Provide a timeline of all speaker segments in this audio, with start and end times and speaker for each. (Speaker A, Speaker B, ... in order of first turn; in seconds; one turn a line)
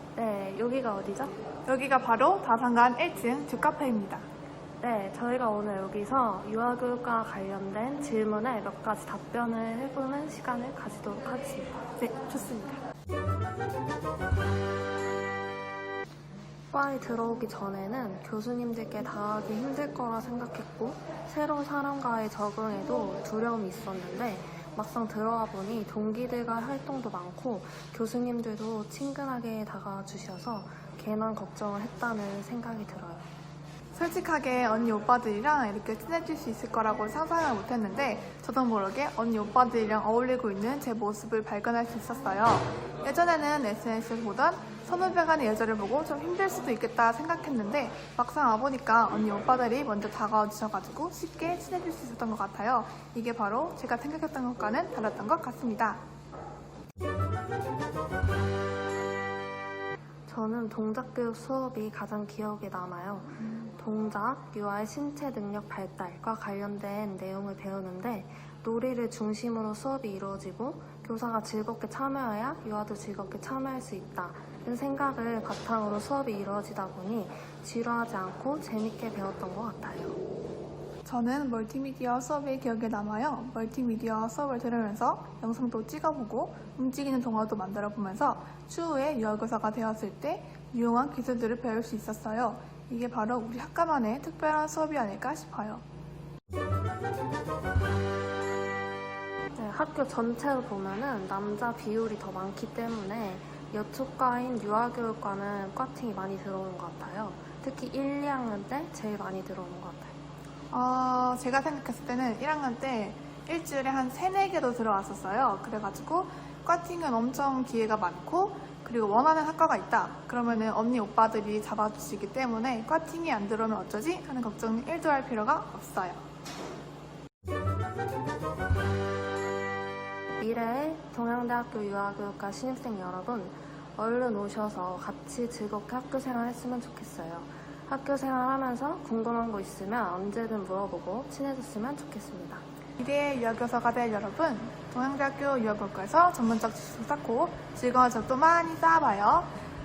Speaker A: 0.1-1.3
Speaker B: 1.6-4.2
Speaker A: 4.8-11.8
Speaker B: 12.0-12.8
Speaker A: 16.7-33.3
Speaker B: 33.9-56.0
Speaker A: 60.3-80.2
Speaker B: 81.0-95.8
Speaker A: 99.5-110.1
Speaker B: 110.7-126.2
Speaker A: 130.4-142.6
Speaker B: 143.0-149.5